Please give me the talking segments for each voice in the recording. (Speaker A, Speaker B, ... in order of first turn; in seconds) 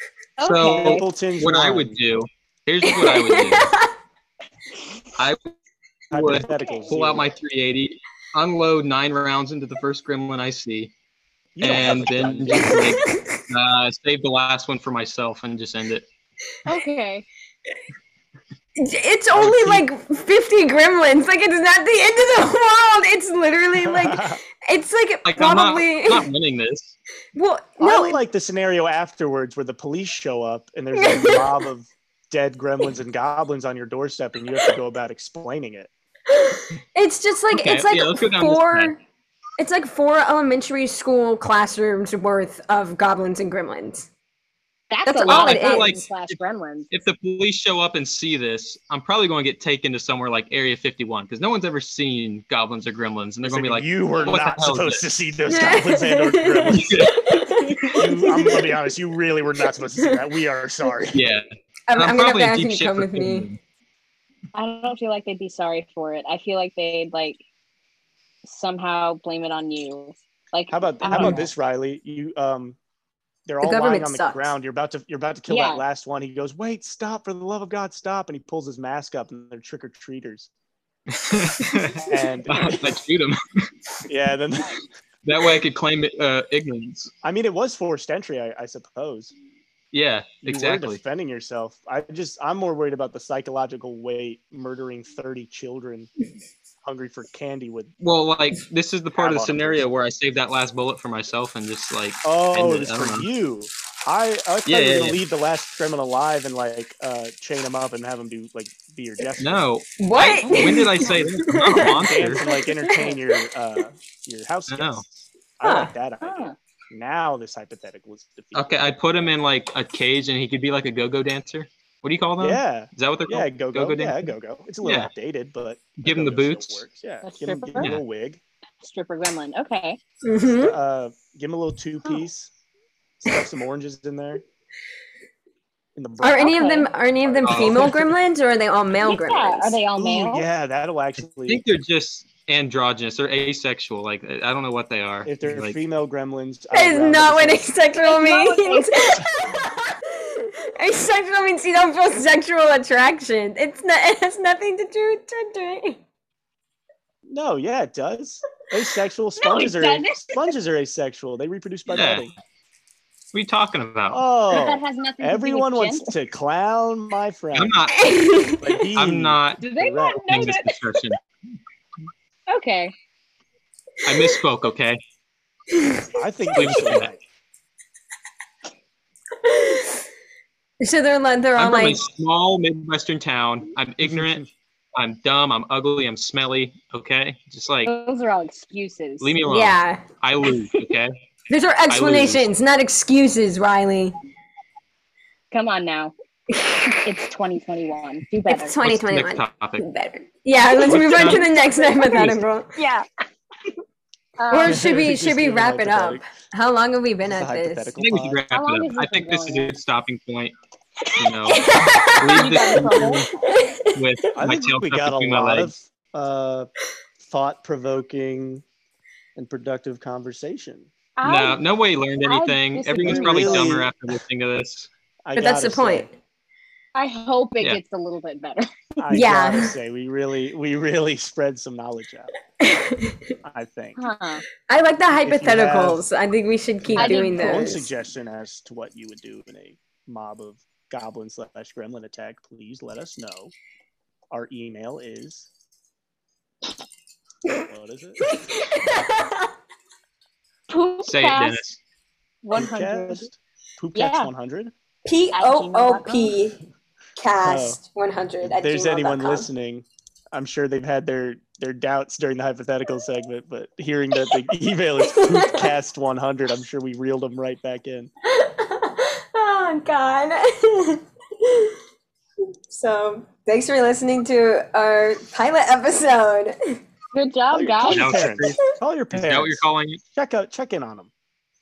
Speaker A: 0.4-1.1, 6.5-7.0, 16.7-17.3, 44.9-46.9, 64.5-67.4, 68.5-71.5, 75.5-75.8, 110.4-111.2, 112.9-113.2, 116.2-116.6, 127.2-127.9, 128.8-130.0, 136.4-136.9, 139.1-140.5, 148.0-149.2, 159.4-160.5, 164.5-166.1, 169.6-171.0, 172.5-172.9, 187.8-189.3, 195.5-196.1, 197.1-198.8, 200.9-202.2, 202.8-203.1, 204.4-204.9, 208.5-209.8, 212.3-213.3, 221.2-221.6, 222.2-223.8, 226.9-229.1, 234.0-234.4, 237.0-237.8, 250.7-251.6, 252.4-253.3, 253.9-254.3, 255.3-256.4, 277.1-278.3
Speaker B: 0.4-3.7, 6.1-10.9, 11.6-16.1, 19.4-19.8, 25.2-26.9, 37.5-38.9, 45.3-46.4, 46.9-55.0, 56.7-57.6, 61.1-63.6, 81.1-83.7, 85.2-87.1, 89.9-91.0, 98.0-103.3, 104.7-105.2, 109.4-112.4, 114.7-115.0, 118.5-125.1, 126.0-126.8, 137.4-138.0, 141.5-145.8, 161.9-162.3, 163.3-164.2, 167.5-168.2, 168.9-169.6, 170.3-171.2, 174.1-175.0, 176.6-177.1, 181.6-187.9, 189.2-191.2, 191.9-192.5, 198.8-199.8, 200.8-202.4, 208.0-210.5, 211.1-213.3, 213.9-215.7, 221.2-224.9, 251.1-251.8, 277.9-280.0
Speaker C: 0.6-2.0, 6.1-7.3, 11.6-13.0, 19.4-19.8, 23.8-24.4, 27.8-35.9, 53.4-57.1, 57.9-61.2, 70.7-72.8, 73.5-80.5, 82.0-82.9, 84.1-84.8, 87.2-89.3, 90.4-96.1, 96.8-97.9, 99.2-99.9, 102.2-109.7, 112.0-118.7, 122.4-128.4, 130.4-132.5, 133.2-134.4, 135.9-136.7, 137.2-137.9, 139.9-141.6, 145.2-147.7, 157.3-162.3, 164.1-167.8, 168.6-170.5, 176.1-177.2, 204.7-206.2, 207.2-208.4, 214.3-218.6, 219.4-220.9, 223.0-223.9, 225.2-226.1, 229.0-232.3, 233.4-234.0, 235.2-236.1, 236.8-243.5, 244.3-245.5, 247.7-248.3, 252.6-254.7, 257.4-257.8, 258.4-268.1, 277.5-281.1
Speaker D: 2.9-3.9, 12.6-13.4, 18.8-26.3, 27.4-28.2, 30.9-31.6, 36.3-39.0, 39.6-44.1, 45.1-46.0, 55.5-58.7, 61.9-63.5, 73.6-74.5, 110.0-113.2, 115.6-115.9, 130.2-130.8, 136.2-139.8, 146.7-156.0, 167.9-168.8, 175.8-176.0, 179.4-180.0, 180.8-182.0, 189.5-190.0, 191.5-194.2, 196.5-197.1, 198.5-202.8, 204.5-207.9, 211.5-212.8, 213.3-214.0, 225.4-226.2, 229.1-229.7, 232.6-233.2, 234.7-237.9, 248.3-249.5, 255.1-256.6, 257.2-259.5, 265.0-265.7, 268.3-271.7, 272.7-276.6